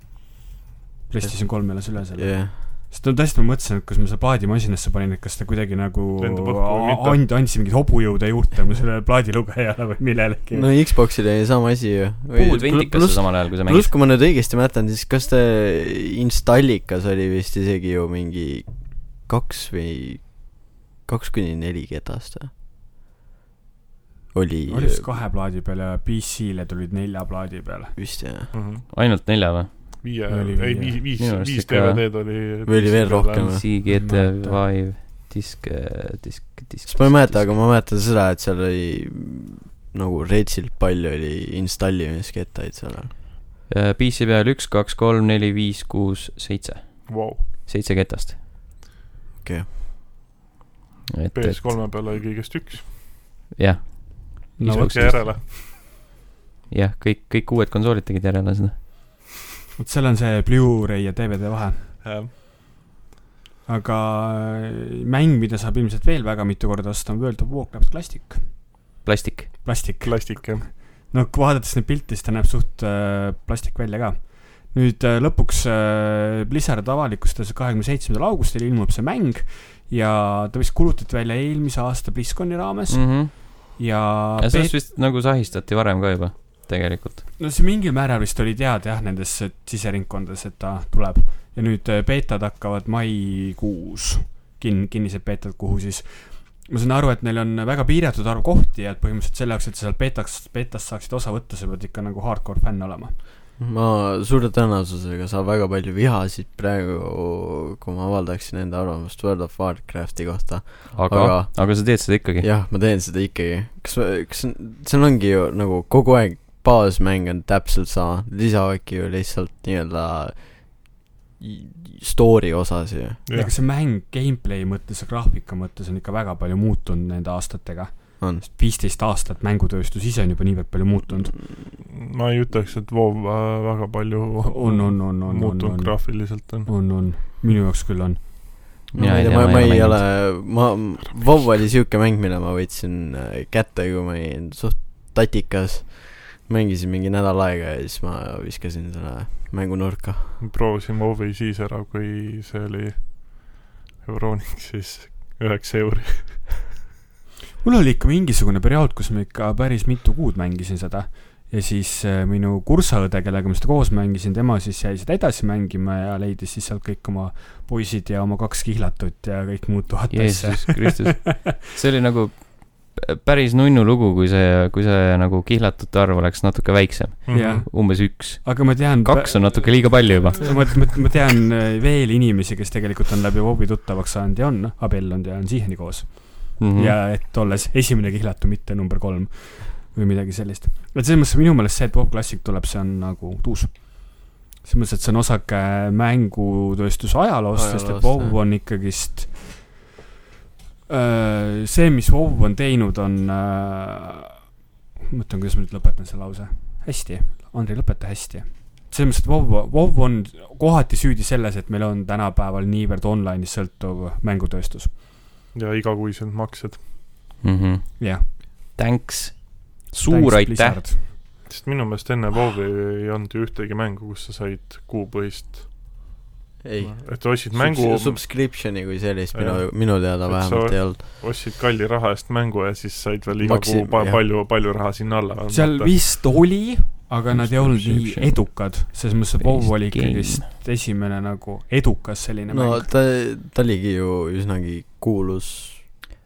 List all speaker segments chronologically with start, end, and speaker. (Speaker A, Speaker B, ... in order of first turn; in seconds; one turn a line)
Speaker A: 1.1-10.7
Speaker B: 1.2-2.5
Speaker C: 6.2-7.2
Speaker B: 10.5-22.5
Speaker D: 12.3-13.9
Speaker B: 24.3-25.1
Speaker A: 24.7-27.9
Speaker B: 27.9-28.5
Speaker C: 28.5-28.9
Speaker D: 28.9-29.7
Speaker C: 30.0-33.6
Speaker A: 30.3-31.0
Speaker D: 31.2-32.0
Speaker B: 32.6-33.6
Speaker D: 33.5-37.5
Speaker A: 33.9-34.6
Speaker B: 36.9-43.1
Speaker D: 43.7-48.4
Speaker C: 47.1-47.5
Speaker B: 49.4-49.7
Speaker D: 51.1-51.8
Speaker C: 51.3-52.9
Speaker D: 53.5-55.3
Speaker A: 54.6-55.3
Speaker C: 54.7-55.5
Speaker D: 56.7-58.8
Speaker A: 59.8-61.9
Speaker C: 62.0-62.3
Speaker A: 63.6-68.7
Speaker D: 69.0-69.5
Speaker A: 69.6-84.7
Speaker C: 70.0-70.8
Speaker D: 82.9-83.8
Speaker D: 84.4-87.2
Speaker A: 87.4-103.2
Speaker B: 103.6-123.2
Speaker D: 110.9-112.5
Speaker C: 123.2-123.5
Speaker A: 123.3-131.4
Speaker B: 128.2-128.4
Speaker C: 131.5-136.9
Speaker A: 134.4-138.3
Speaker D: 138.9-140.0
Speaker B: 138.9-150.4
Speaker C: 141.2-141.4
Speaker C: 150.4-156.5
Speaker A: 157.6-171.5
Speaker D: 170.1-180.8
Speaker C: 177.2-177.7
Speaker A: 177.3-199.8
Speaker D: 186.6-186.9
Speaker B: 197.5-198.4
Speaker A: 200.9-214.9
Speaker C: 215.5-216.9
Speaker D: 217.4-220.8
Speaker A: 218.0-218.3
Speaker A: 220.1-221.1
Speaker C: 221.4-225.9
Speaker B: 226.6-231.0
Speaker C: 226.8-228.7
Speaker C: 229.3-236.1
Speaker B: 233.4-234.2
Speaker A: 235.5-242.9
Speaker D: 237.8-238.3
Speaker D: 239.4-240.4
Speaker B: 242.5-246.0